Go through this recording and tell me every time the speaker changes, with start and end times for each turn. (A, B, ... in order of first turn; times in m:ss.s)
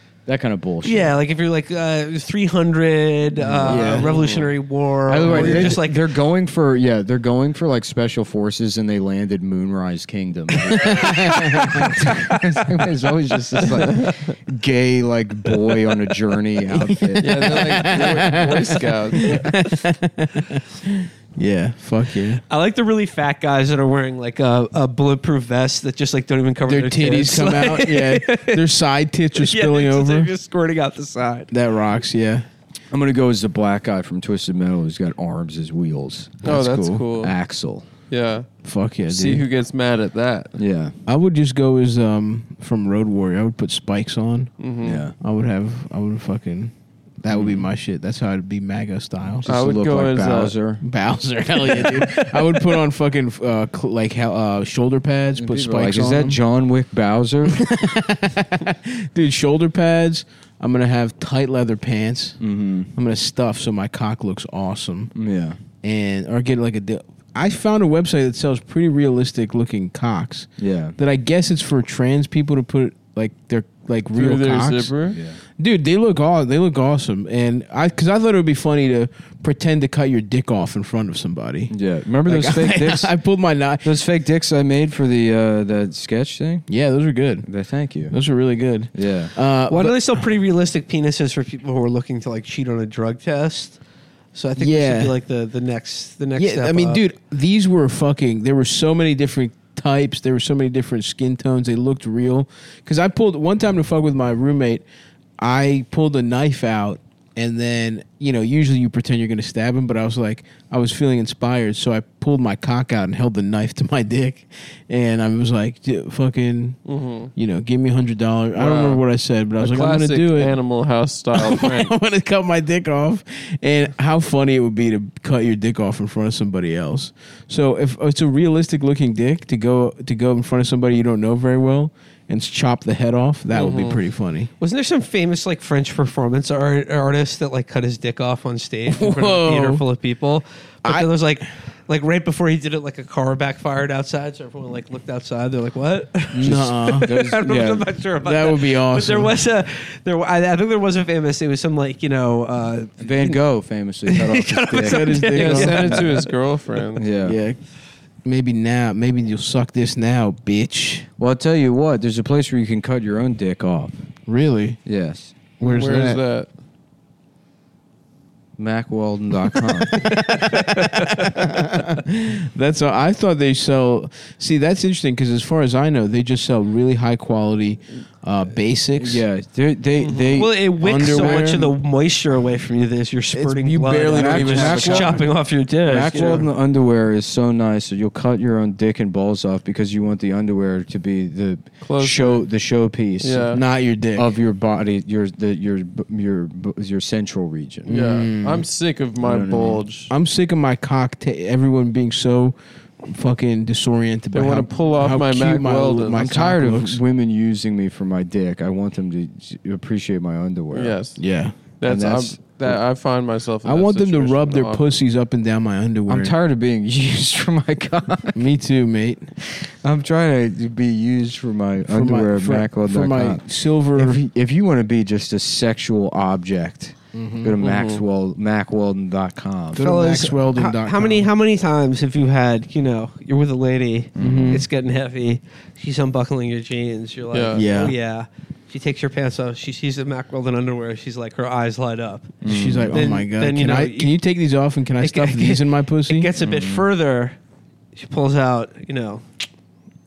0:00.3-0:01.2 A
0:00.8-0:06.0 B
0:03.4-0:04.0 A
0:03.7-0:04.1 C
0:04.0-0:04.5 D
0:05.1-0:18.1 A
0:05.2-0:05.8 C
0:10.7-0:12.0 C
0:13.9-0:14.2 D
0:17.0-0:22.4 C
0:17.2-0:19.5 D
0:22.5-0:28.6 B
0:26.7-0:30.3 C
0:29.4-0:31.5 B
0:31.5-0:32.4 C
0:32.9-0:37.8 A
0:36.4-0:37.4 D
0:36.5-0:37.0 C
0:38.1-0:38.5 D
0:38.6-0:39.5 C
0:39.1-0:40.5 D
0:40.6-0:40.9 A
0:41.1-0:44.5 C
0:44.6-0:45.0 D
0:44.8-0:45.1 A
0:45.2-0:49.5 C
0:47.3-0:47.7 A
0:49.4-0:50.8 A
0:49.4-0:50.6 D
0:50.8-0:56.4 C
0:55.4-0:57.7 A
0:57.6-1:02.4 C
1:02.4-1:02.9 A
1:02.9-1:05.1 C
1:05.1-1:05.6 A
1:05.8-1:14.9 C
1:10.6-1:11.0 A
1:14.2-1:15.2 D
1:15.1-1:15.4 A
1:15.6-1:21.8 C
1:21.7-1:23.1 A
1:22.3-1:23.9 C
1:23.8-1:26.7 A
1:26.7-1:27.5 C
1:27.4-1:28.2 A
1:28.1-1:30.2 C
1:28.9-1:29.3 A
1:29.7-1:33.8 B
1:34.3-1:37.0 B
1:34.6-1:35.2 C
1:36.4-1:44.8 C
1:45.4-1:56.8 C
1:56.9-1:57.3 D
1:57.3-2:00.5 C
1:58.6-1:59.0 D
1:59.6-2:02.0 D
2:01.4-2:14.5 C
2:13.5-2:14.0 D
2:14.6-2:33.4 B
2:18.9-2:19.8 C
2:26.3-2:27.1 C
2:26.4-2:27.9 A
2:28.2-2:29.3 C
2:33.0-2:36.1 A
2:34.1-2:36.3 B
2:34.8-2:35.7 C
2:35.3-2:37.0 D
2:37.0-2:37.4 A
2:37.2-2:37.6 C
2:38.2-2:41.1 C
2:41.2-2:44.0 A
2:44.3-2:44.8 C
2:44.8-2:45.4 A
2:45.6-2:46.2 C
2:45.6-2:46.5 D
2:48.6-2:50.1 A
2:50.0-2:59.2 C
2:59.0-3:01.6 A
3:00.3-3:06.5 B
3:00.8-3:01.7 C
3:03.3-3:05.3 C
3:04.1-3:05.3 A
3:05.9-3:13.6 A
3:11.8-3:12.5 D
3:13.2-3:13.6 D
3:13.5-3:14.3 C
3:14.1-3:18.0 A
3:17.9-3:18.6 C
3:17.9-3:20.1 D
3:19.2-3:19.8 A
3:20.1-3:27.0 C
3:24.3-3:26.3 D
3:26.1-3:31.0 A
3:30.7-3:34.9 D
3:31.2-3:31.6 C
3:31.8-3:32.8 A
3:33.6-3:36.3 C
3:36.1-3:38.4 A
3:38.3-3:39.3 C
3:39.4-3:49.9 A
3:41.9-3:44.2 C
3:47.1-3:47.5 C
3:47.6-3:48.0 D
3:49.7-3:51.3 C
3:49.8-4:04.2 B
3:54.2-3:54.6 A
3:54.2-3:54.6 C
3:57.3-3:57.6 D
3:57.5-3:58.0 C
4:02.4-4:03.0 A
4:02.5-4:06.3 C
4:05.0-4:07.4 B
4:06.4-4:06.9 A
4:08.0-4:09.3 B